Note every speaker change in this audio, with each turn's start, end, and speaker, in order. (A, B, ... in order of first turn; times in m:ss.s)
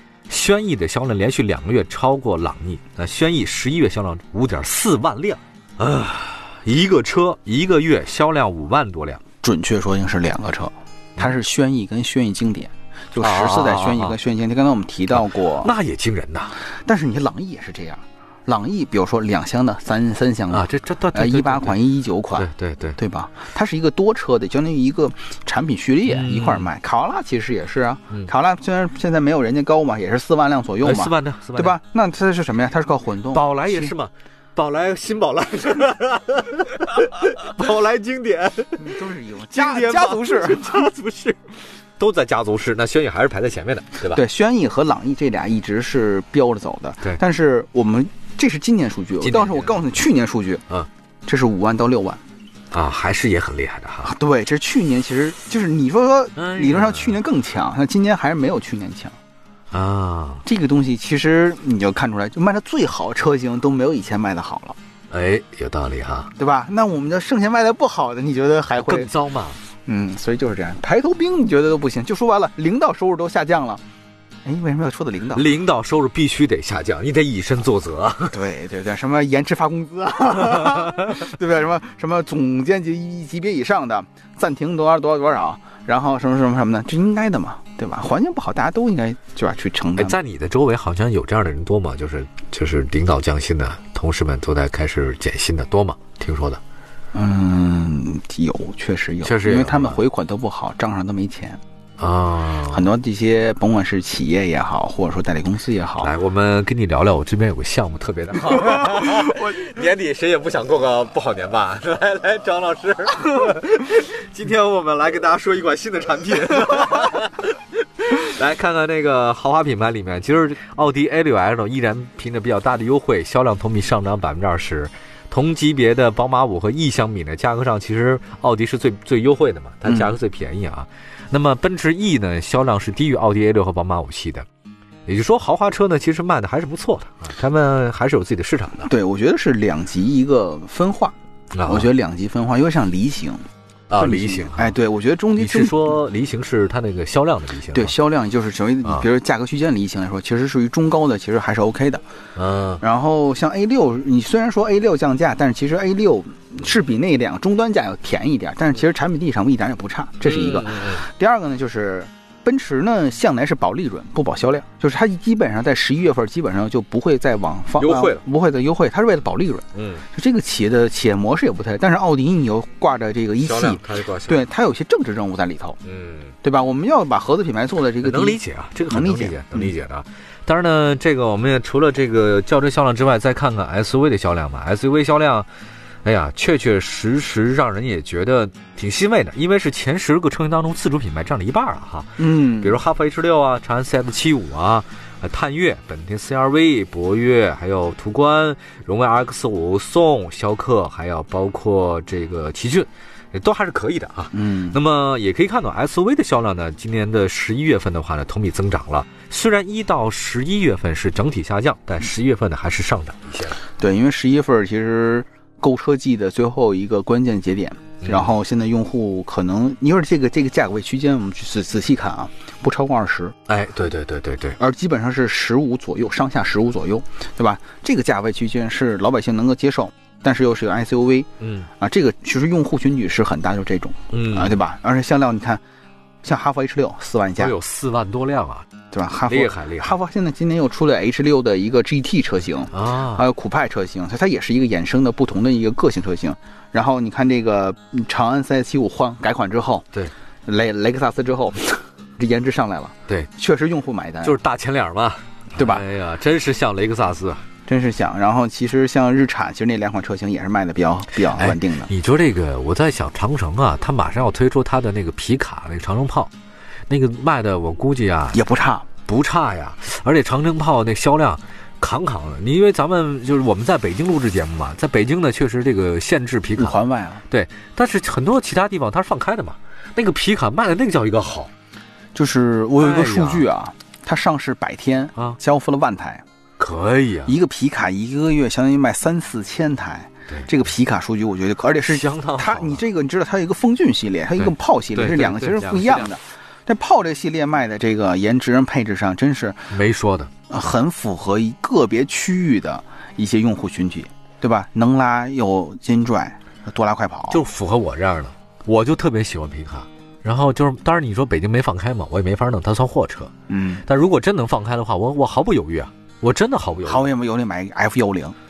0:00.3-0:09.2 A
0:09.4-0:15.7 B
0:13.2-0:14.2 A
0:15.1-0:16.6 A
0:16.7-0:33.9 B
0:20.5-0:21.8 A
0:22.4-0:23.0 A
0:26.1-0:26.7 A
0:30.8-0:31.8 A
0:33.3-0:39.0 A
0:38.8-0:40.8 B
0:39.5-0:41.4 A
0:42.0-0:44.2 A
0:44.1-0:50.6 B
0:49.2-0:49.9 A
0:51.2-0:52.2 B
0:52.7-0:54.1 A
0:54.0-0:59.2 B
0:56.4-0:57.2 A
0:59.7-1:00.4 A
1:00.4-1:04.8 B
1:05.1-1:06.3 A
1:06.4-1:09.1 B
1:08.8-1:09.6 A
1:09.8-1:13.8 B
1:14.4-1:15.4 B
1:15.3-1:18.4 A
1:18.3-1:30.2 B
1:30.0-1:36.6 A
1:37.1-1:41.6 B
1:39.2-1:40.0 A
1:42.0-1:42.8 A
1:42.7-1:46.1 B
1:46.0-2:14.4 A
1:48.6-1:49.5 B
2:15.1-2:18.9 A
2:18.8-2:21.1 B
2:21.5-2:21.9 A
2:21.6-2:23.4 B
2:23.9-2:24.8 A
2:24.0-2:25.9 B
2:25.4-2:27.9 A
2:27.7-2:32.0 B
2:32.4-2:32.8 A
2:32.8-2:55.8 B
2:40.2-2:41.0 A
2:47.8-2:48.2 A
2:49.7-2:50.0 A
2:53.4-2:54.4 A
2:55.8-2:56.4 A
2:56.4-2:59.7 B
2:58.0-3:05.5 A
3:06.0-3:33.6 A
3:12.2-3:12.8 B
3:24.3-3:24.8 B
3:33.8-3:43.3 B
3:38.0-3:38.3 A
3:43.5-3:44.6 A
3:44.6-3:55.6 B
3:51.4-3:51.7 A
3:54.1-3:54.6 A
3:56.2-3:57.5 B
3:57.4-3:58.7 A
3:58.9-4:09.9 B
3:59.3-4:00.0 A
4:02.7-4:03.2 A
4:10.4-4:14.4 B
4:14.2-4:17.4 A
4:15.6-4:15.8 B
4:17.7-4:21.9 B
4:21.2-4:26.3 A
4:26.9-4:28.4 A
4:28.3-4:28.9 B
4:29.0-4:36.8 A
4:36.6-4:37.2 B
4:37.3-4:41.5 A
4:42.1-4:46.2 B
4:42.8-4:43.5 A
4:46.6-4:47.3 A
4:47.2-4:59.7 B
4:51.8-4:52.8 A
4:54.4-4:56.1 A
4:59.7-5:00.3 A
5:00.5-5:07.4 B
5:07.3-5:13.3 A
5:13.5-5:13.8 B
5:13.8-5:17.1 A
5:16.8-5:18.4 B